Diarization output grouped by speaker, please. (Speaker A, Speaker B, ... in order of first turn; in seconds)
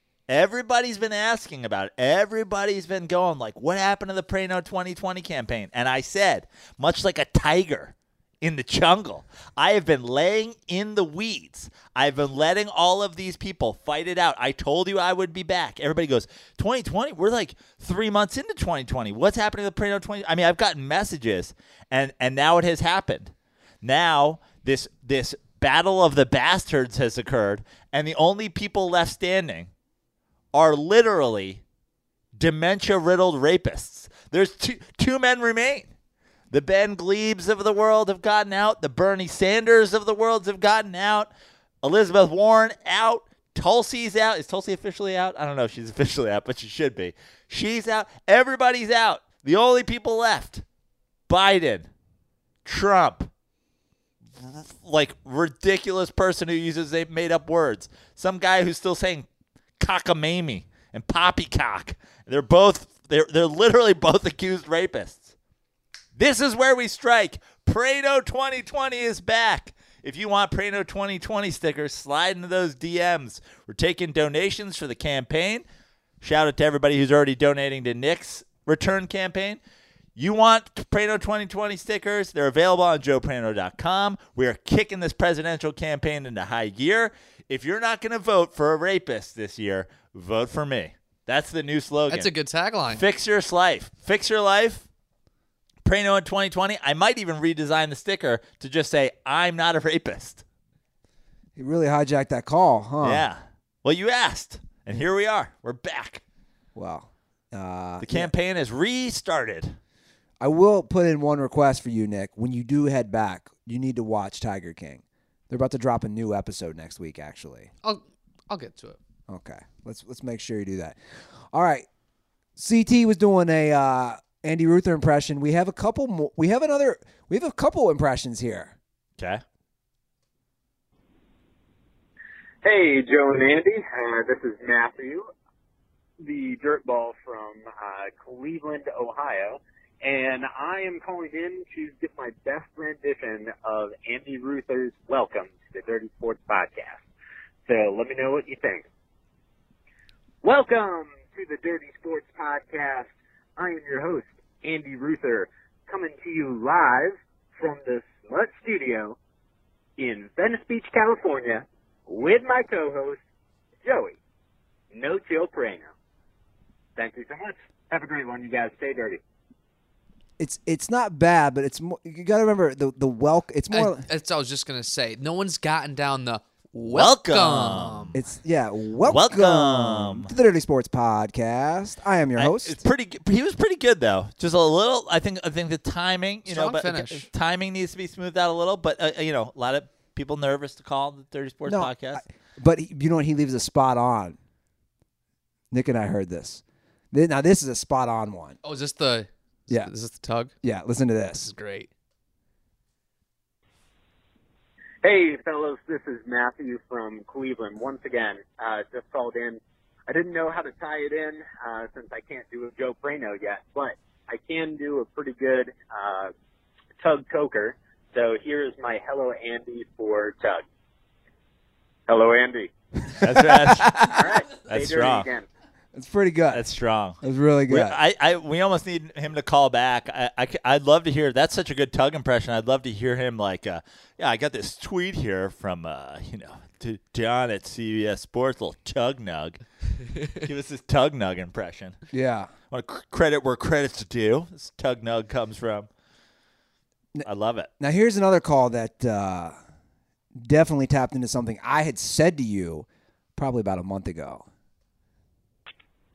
Speaker A: 0.3-29.7, 30.5-31.6, 32.4-35.9, 36.5-41.3, 41.8-50.6, 51.3-51.9, 52.6-53.3, 54.3-59.3, 59.8-65.3, 66.2-75.6, 76.2-79.6, 80.2-92.3, 92.9-94.9, 95.8-100.4, 103.0-106.2, 108.0-109.8, 129.2-129.4, 176.8-178.2, 179.0-180.3, 182.4-192.2, 223.2-225.3, 226.5-239.6, 240.3-242.0, 242.7-245.9, 247.2-247.7
Speaker B: 92.1-93.0, 117.8-119.0, 173.7-178.1, 186.5-187.3, 198.6-200.5, 201.4-201.9
Speaker C: 101.6-103.3, 106.8-108.3, 110.4-117.7, 119.3-121.0, 121.5-121.8, 122.6-128.7, 170.4-174.1, 178.1-182.8, 191.7-194.4, 195.7-198.6, 200.6-201.5, 223.1-223.9, 225.9-226.6, 227.2-228.0, 242.1-242.5, 247.8-249.5, 250.3-254.4
Speaker D: 132.6-135.3, 136.2-147.0, 147.7-148.9, 150.4-159.2, 160.0-163.2, 163.8-164.2, 164.9-165.9, 166.9-169.2, 205.0-216.3, 217.0-220.6, 222.1-222.7, 224.1-225.4